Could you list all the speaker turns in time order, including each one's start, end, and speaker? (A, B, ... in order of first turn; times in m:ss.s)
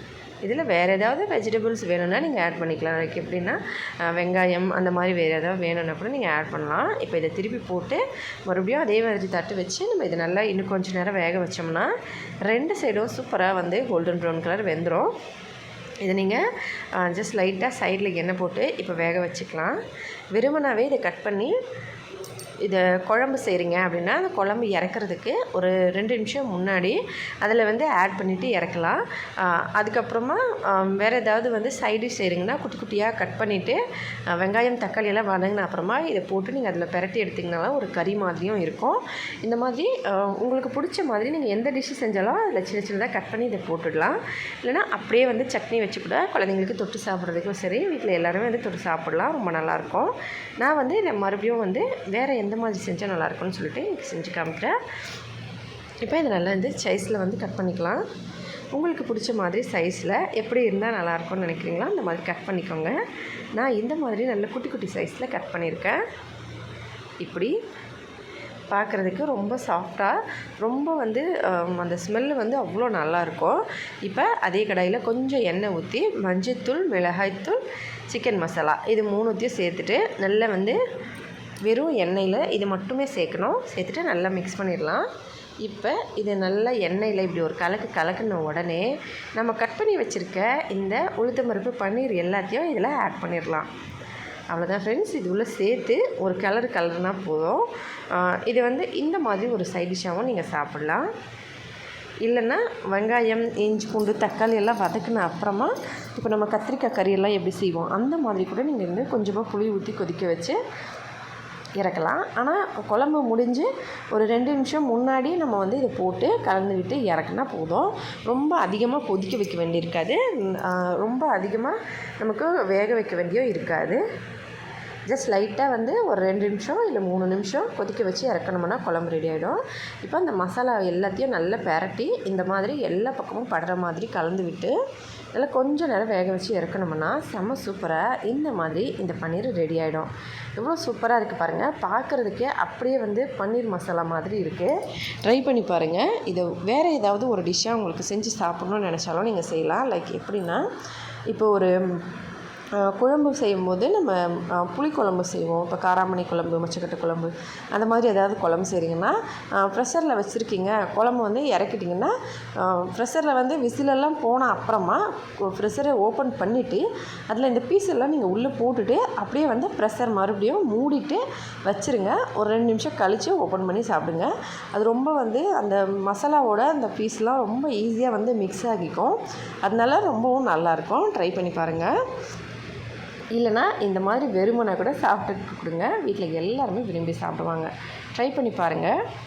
0:00.4-0:11.9 A
0:12.4-0:15.1 A
0:16.0-0:19.8 A
0:20.3-0:21.5 A
0:22.6-0:33.8 A
0:34.3-0:54.8 A
0:56.0-0:58.0 A
0:58.7-1:02.9 A
1:03.5-1:06.0 A
1:07.2-1:07.5 A
1:08.7-1:20.8 A
1:21.6-1:25.0 A
1:25.6-1:33.7 A
1:34.5-1:41.1 A
1:42.2-1:50.6 A
1:51.8-2:04.0 A
2:05.1-2:14.7 A
2:15.3-2:30.6 A
2:31.3-2:32.0 A
2:32.7-3:01.9 A
3:03.3-3:09.0 A